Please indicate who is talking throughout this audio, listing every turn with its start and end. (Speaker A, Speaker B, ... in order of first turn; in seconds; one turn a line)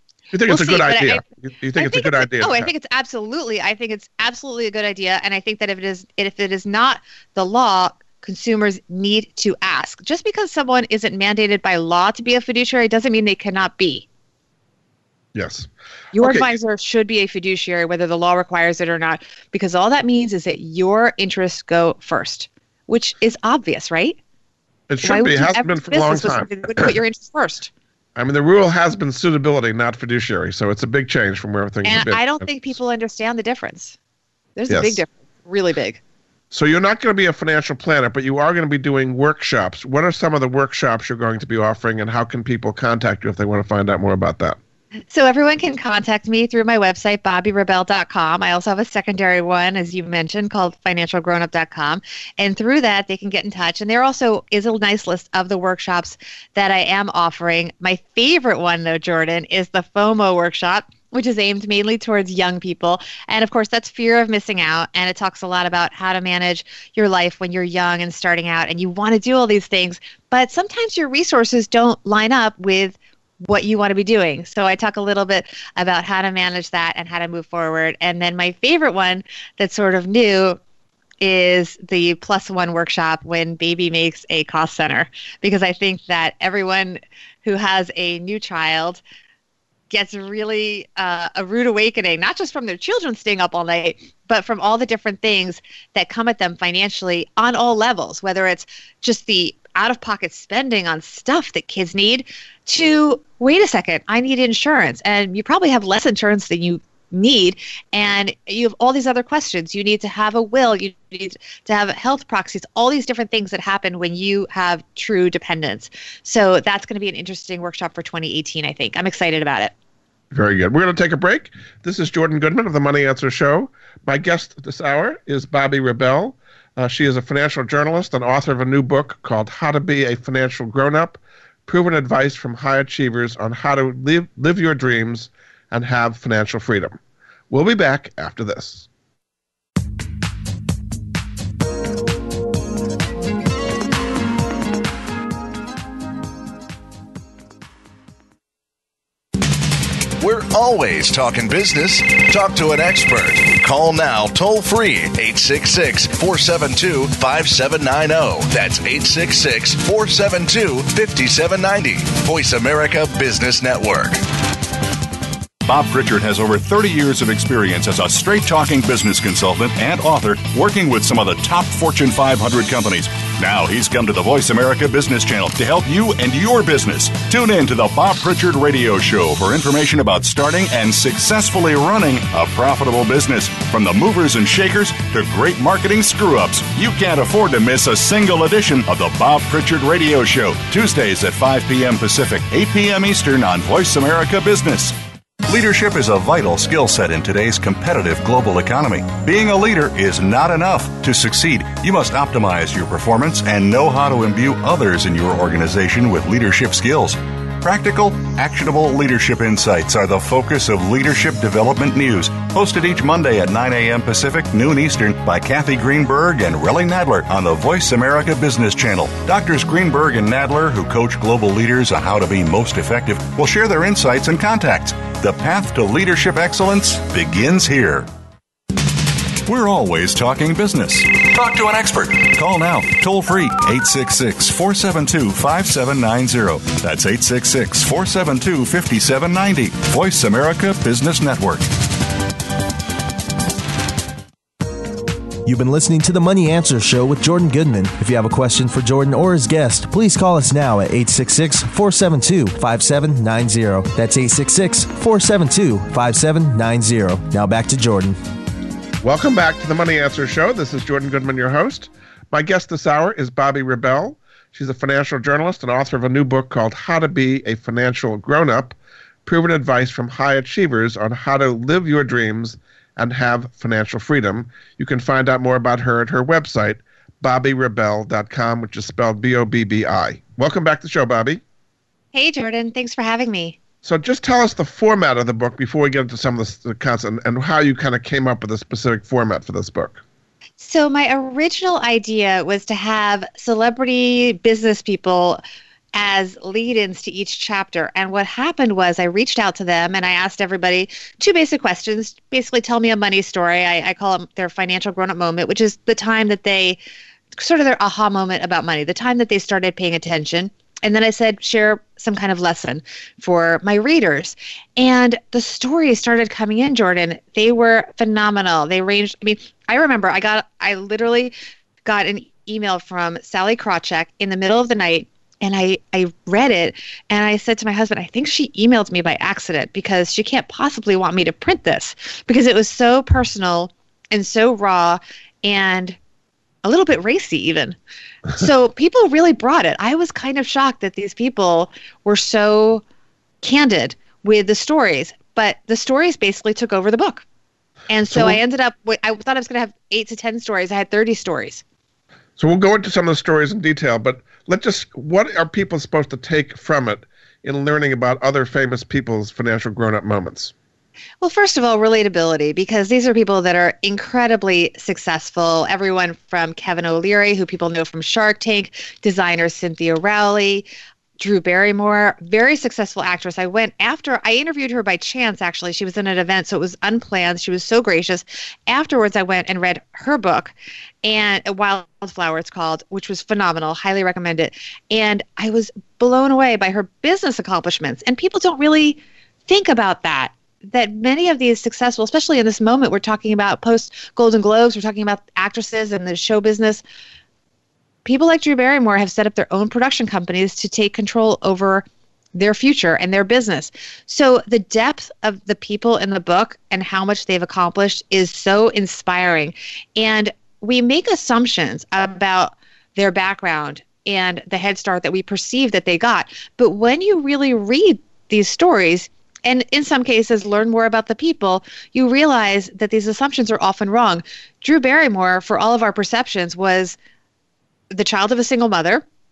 Speaker A: 0.3-2.7
Speaker B: 0.5-1.2
Speaker B: 1.8-14.1
Speaker A: 15.3-16.5
Speaker B: 16.1-24.2
Speaker A: 24.9-26.9
Speaker B: 25.0-27.7
Speaker A: 28.2-32.4
Speaker B: 31.9-34.0
Speaker B: 34.6-36.0
Speaker A: 34.7-35.0
Speaker A: 36.5-44.6
Speaker B: 45.1-80.6
Speaker B: 81.2-89.0
Speaker B: 89.9-119.7
Speaker A: 120.3-137.0
Speaker A: 137.5-138.9
Speaker C: 150.2-164.2
Speaker D: 165.6-228.1
Speaker D: 229.4-241.7
Speaker E: 245.4-258.2
Speaker A: 259.0-281.4
Speaker B: 282.1-283.6
Speaker A: 283.8-290.0
Speaker B: 290.6-295.4
Speaker B: 295.9-306.8
Speaker B: 307.4-336.0
Speaker B: 336.6-337.8
Speaker B: 338.3-342.8
Speaker B: 343.4-347.2
Speaker B: 347.9-351.6
Speaker A: 348.1-348.4
Speaker A: 352.4-360.5
Speaker B: 361.2-370.7
Speaker B: 371.2-396.8
Speaker B: 398.1-427.0
Speaker B: 427.9-429.0